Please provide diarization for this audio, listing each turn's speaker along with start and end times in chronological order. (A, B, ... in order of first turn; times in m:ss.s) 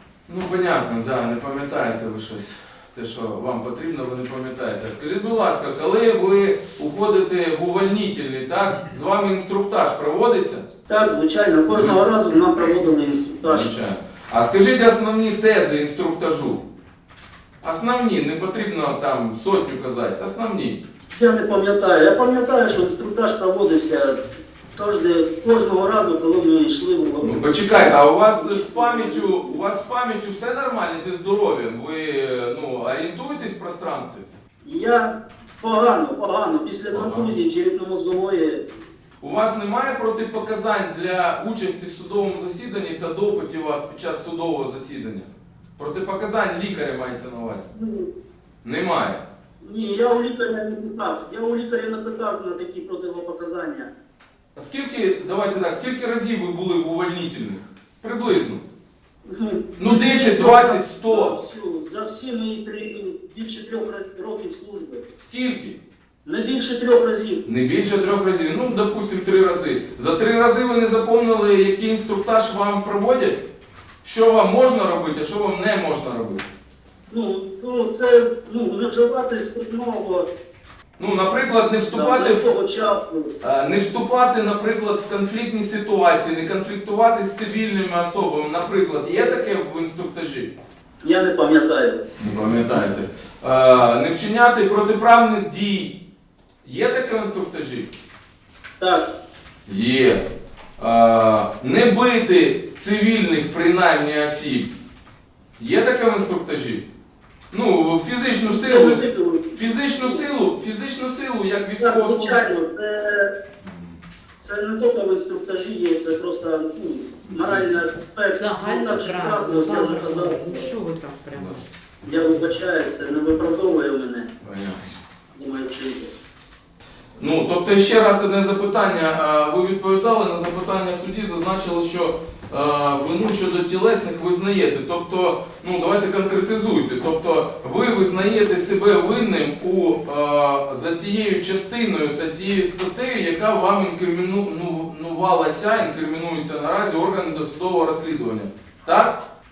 0:00.3-0:10.6 A
0:10.9-0:13.7 B
0:11.7-0:12.0 A
0:13.4-0:16.6 A
0:17.6-0:20.8 A
0:21.0-0:24.2 B
0:24.7-0:29.6 B
0:27.2-0:34.2 A
0:34.6-0:38.6 B
0:36.9-0:37.3 A
0:39.2-0:47.7 A
0:47.7-0:48.1 B
0:48.6-0:49.2 A
0:49.6-0:53.9 B
0:54.6-0:58.6 A
0:59.2-1:05.0 B
0:59.8-1:01.3 A
1:05.2-1:05.8 A
1:06.2-1:07.4 B
1:07.4-1:13.4 A
1:14.0-1:16.4 A
1:17.1-1:20.3 B
1:21.0-1:22.5 A
1:21.9-1:23.3 B
1:23.4-1:30.5 A
1:31.0-1:32.0 B
1:32.2-1:36.0 A
1:36.6-1:37.9 A
1:38.8-1:39.1 B
1:39.7-1:40.2 A
1:40.8-1:44.7 A
1:45.6-1:46.8 A
1:47.5-1:52.4 A
1:48.4-1:50.2 B
1:51.8-1:53.4 B
1:53.6-1:54.0 A
1:54.4-2:00.7 B
1:57.3-1:57.9 A
1:58.3-2:01.6 C
2:02.0-2:04.3 B
2:04.4-2:04.8 A
2:05.3-2:06.1 B
2:07.2-2:29.2 A